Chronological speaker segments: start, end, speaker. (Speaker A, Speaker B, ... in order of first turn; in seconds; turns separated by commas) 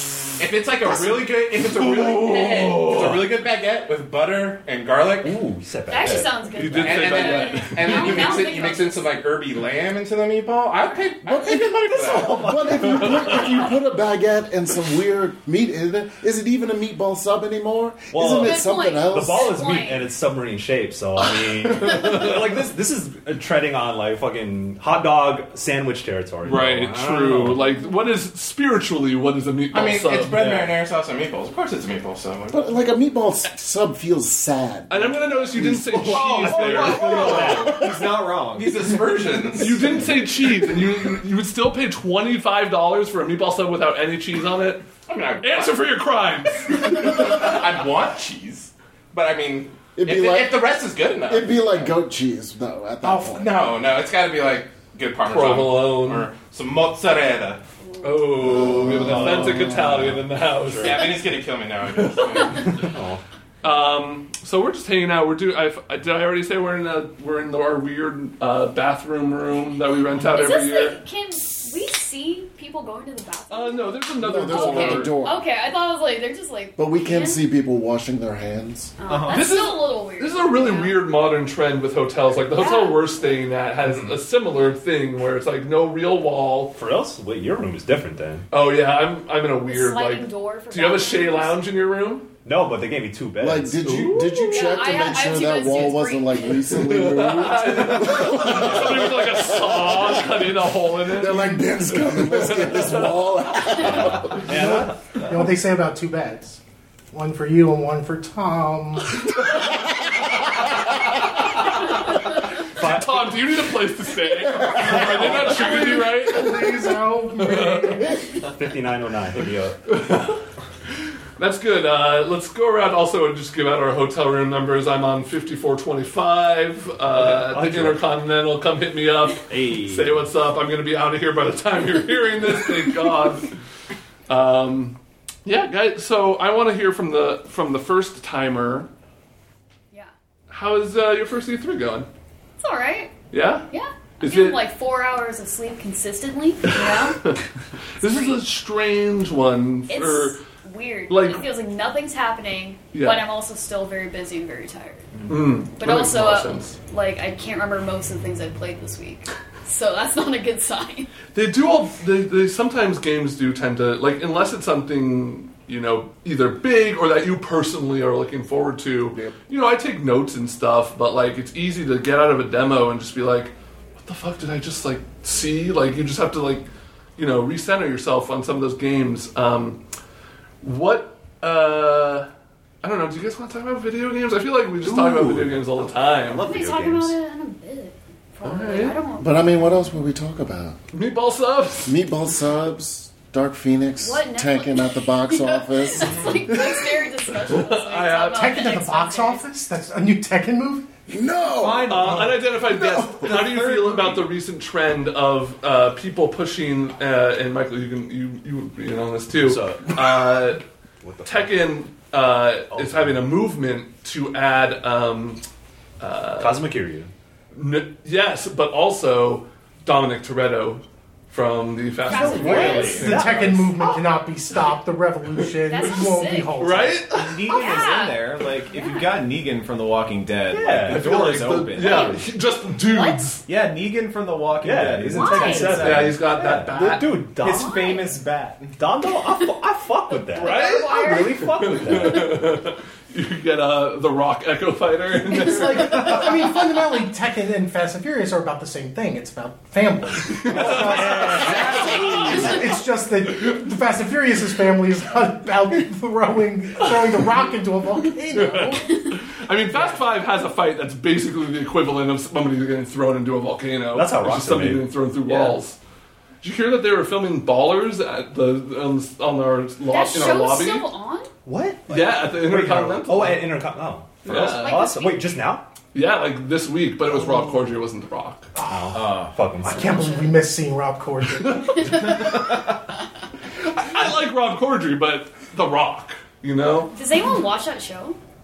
Speaker A: 0.4-5.4, Speaker B: 1.7-3.3, Speaker C: 5.2-6.5, Speaker D: 5.9-9.1, Speaker B: 6.5-8.4, Speaker A: 6.8-12.6, Speaker E: 11.2-19.5, Speaker C: 11.5-13.4, Speaker C: 18.1-27.6, Speaker D: 18.4-20.1, Speaker B: 26.4-30.8, Speaker A: 29.7-32.8, Speaker E: 32.5-36.1, Speaker B: 34.9-37.7, Speaker A: 35.8-37.8, Speaker F: 36.6-39.6, Speaker C: 37.1-37.8, Speaker E: 37.4-38.1, Speaker A: 38.5-40.1, Speaker B: 39.6-44.9, Speaker A: 45.1-45.8, Speaker B: 45.4-46.9, Speaker A: 46.7-52.0, Speaker E: 50.0-50.6, Speaker E: 51.3-53.6, Speaker A: 53.0-57.6, Speaker B: 55.2-56.3, Speaker B: 58.0-61.2, Speaker E: 58.4-59.9, Speaker C: 58.9-61.2, Speaker A: 59.1-59.4, Speaker A: 60.8-62.8, Speaker B: 61.9-62.7, Speaker C: 62.6-63.2, Speaker B: 63.6-71.0, Speaker D: 70.1-77.5, Speaker B: 73.5-75.2, Speaker E: 74.2-75.5, Speaker E: 76.8-78.9, Speaker D: 79.0-81.0, Speaker F: 79.1-79.5, Speaker B: 79.3-86.7, Speaker D: 82.5-83.3, Speaker C: 86.8-88.5, Speaker B: 88.5-92.3, Speaker D: 89.7-91.6, Speaker C: 92.5-94.1, Speaker E: 93.4-100.4, Speaker B: 93.8-94.7, Speaker D: 94.5-96.6, Speaker B: 96.7-103.2, Speaker E: 101.1-104.4, Speaker C: 103.8-105.5, Speaker G: 104.5-106.6, Speaker G: 107.1-109.3, Speaker B: 112.7-116.8, Speaker C: 112.8-113.3, Speaker C: 114.8-115.5, Speaker G: 114.8-118.2, Speaker B: 117.4-118.1, Speaker C: 118.5-119.8, Speaker B: 119.9-120.3, Speaker B: 121.4-133.5, Speaker C: 127.1-128.0, Speaker C: 129.5-130.3, Speaker B: 134.3-138.9, Speaker B: 140.5-142.1, Speaker D: 142.6-143.1, Speaker B: 143.3-143.7, Speaker D: 143.7-147.2, Speaker B: 144.2-144.6, Speaker D: 148.0-148.4, Speaker B: 148.0-150.4, Speaker D: 149.9-155.1, Speaker B: 151.1-151.4, Speaker B: 152.9-153.3, Speaker B: 155.3-156.8, Speaker D: 155.8-161.1, Speaker B: 161.3-179.8, Speaker B: 180.6-182.3, Speaker B: 182.8-186.5, Speaker C: 184.8-187.2, Speaker D: 186.4-189.3, Speaker B: 188.4-189.0, Speaker E: 189.2-190.8, Speaker B: 190.9-192.0, Speaker E: 191.8-196.9, Speaker D: 194.0-199.4, Speaker B: 197.4-198.5, Speaker G: 198.3-200.9, Speaker E: 201.1-202.3, Speaker F: 201.6-204.3, Speaker B: 201.9-210.6, Speaker C: 209.4-210.4, Speaker C: 211.0-211.6, Speaker B: 211.2-215.4, Speaker C: 212.7-213.1, Speaker B: 216.0-216.6, Speaker C: 216.4-217.1, Speaker B: 217.5-223.6, Speaker D: 222.1-223.1, Speaker C: 222.1-223.7, Speaker G: 222.5-227.1, Speaker D: 225.7-226.6, Speaker B: 226.6-227.4, Speaker F: 227.1-232.2, Speaker D: 227.5-229.1, Speaker C: 230.5-232.2, Speaker B: 230.8-233.4, Speaker D: 231.8-232.2, Speaker D: 232.8-233.2, Speaker F: 233.5-236.3, Speaker C: 234.6-238.0, Speaker D: 235.1-235.8, Speaker B: 235.7-237.2, Speaker F: 237.4-238.8, Speaker D: 237.4-238.1, Speaker C: 238.8-242.6, Speaker D: 240.3-241.5, Speaker B: 240.4-246.3, Speaker G: 245.3-259.0, Speaker B: 250.4-252.5, Speaker C: 250.5-252.6, Speaker F: 251.4-252.3, Speaker B: 258.3-265.8, Speaker G: 259.7-260.0, Speaker C: 263.9-265.5, Speaker B: 266.4-270.9, Speaker D: 269.9-271.3, Speaker C: 271.5-275.7, Speaker B: 271.9-273.5, Speaker B: 274.2-274.8, Speaker D: 274.4-275.3, Speaker B: 275.9-278.5, Speaker C: 277.2-277.6, Speaker G: 278.6-279.0, Speaker C: 278.6-280.1, Speaker F: 278.9-279.4, Speaker G: 279.6-282.2, Speaker D: 279.7-280.4, Speaker B: 281.4-282.4, Speaker B: 283.6-286.9, Speaker D: 286.9-288.2